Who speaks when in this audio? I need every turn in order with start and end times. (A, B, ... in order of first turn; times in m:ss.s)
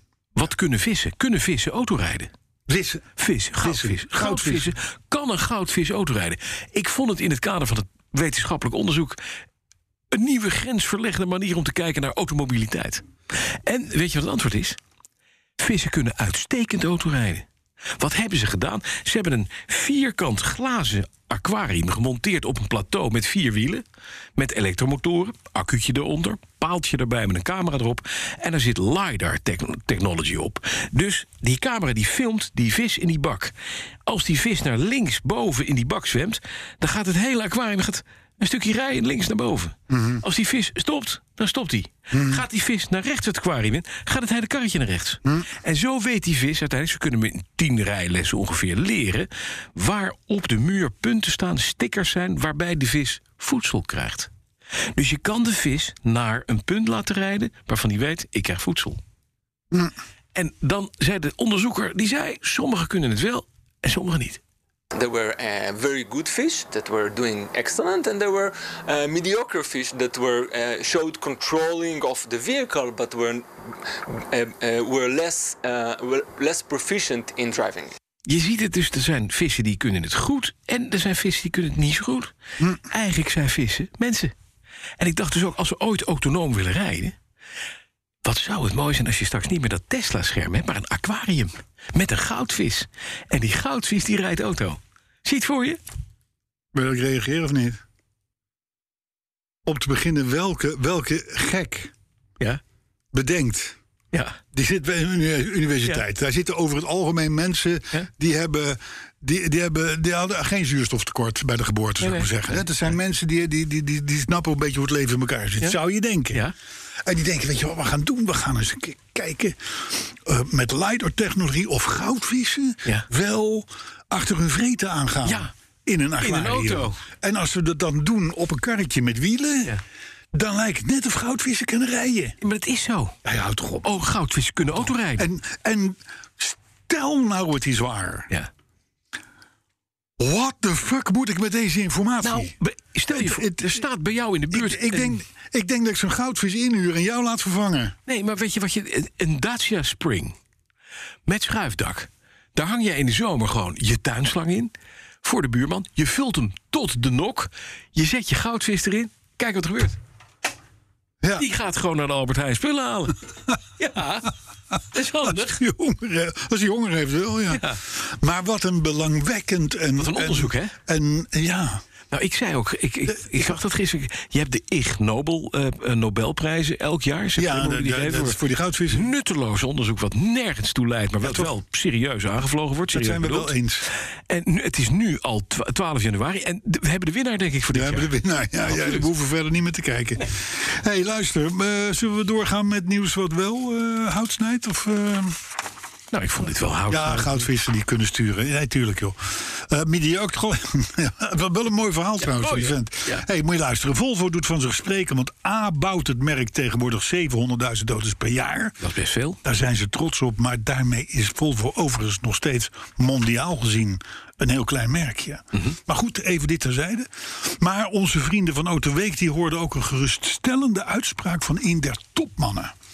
0:00.4-0:02.3 A
0:02.7-0:03.0 B
0:03.2-0:09.2 A
0:03.6-0:04.7 B
0:10.1-0:14.8 A
0:15.6-0:17.5 A
0:18.0-0:23.8 A
0:24.4-0:33.5 A
0:34.1-0:54.3 A
0:39.9-0:40.2 B
0:42.1-0:42.4 B
0:54.9-0:59.0 A
1:00.4-1:04.4 A
1:04.9-1:17.9 C
1:18.3-1:22.3 A
1:22.8-1:24.3 A
1:25.0-1:27.2 A
1:28.2-1:35.8 A
1:36.7-1:37.8 B
1:39.7-1:41.9 B
1:43.1-1:43.8 B
1:44.1-1:44.4 A
1:44.5-1:56.4 B
1:52.0-1:52.7 A
1:57.0-2:09.8 B
2:05.2-2:05.5 A
2:06.2-2:07.0 A
2:10.3-2:12.4 B
2:12.4-2:13.2 A
2:13.2-2:14.0 B
2:13.8-2:15.3 A
2:14.8-2:18.3 B
2:20.2-2:22.6 B
2:22.2-2:25.2 A
2:23.1-2:23.8 B
2:24.5-2:28.0 B
2:28.1-2:30.4 A
2:31.3-2:34.7 A
2:35.2-2:40.0 A
2:41.2-2:41.5 B
2:41.4-2:43.2 A
2:43.8-2:44.3 A
2:44.9-2:45.6 A
2:45.2-2:51.8 B
2:47.5-2:47.8 A
2:50.0-2:50.8 A
2:52.1-3:03.5 A
2:53.1-2:53.5 B
2:57.4-2:59.1 B
3:01.2-3:01.5 B
3:02.9-3:03.9 B
3:04.3-3:09.1 A
3:07.7-3:15.4 B
3:16.1-3:17.5 A
3:16.9-3:28.8 B
3:22.2-3:23.2 A
3:28.8-3:29.4 A
3:29.4-3:42.8 B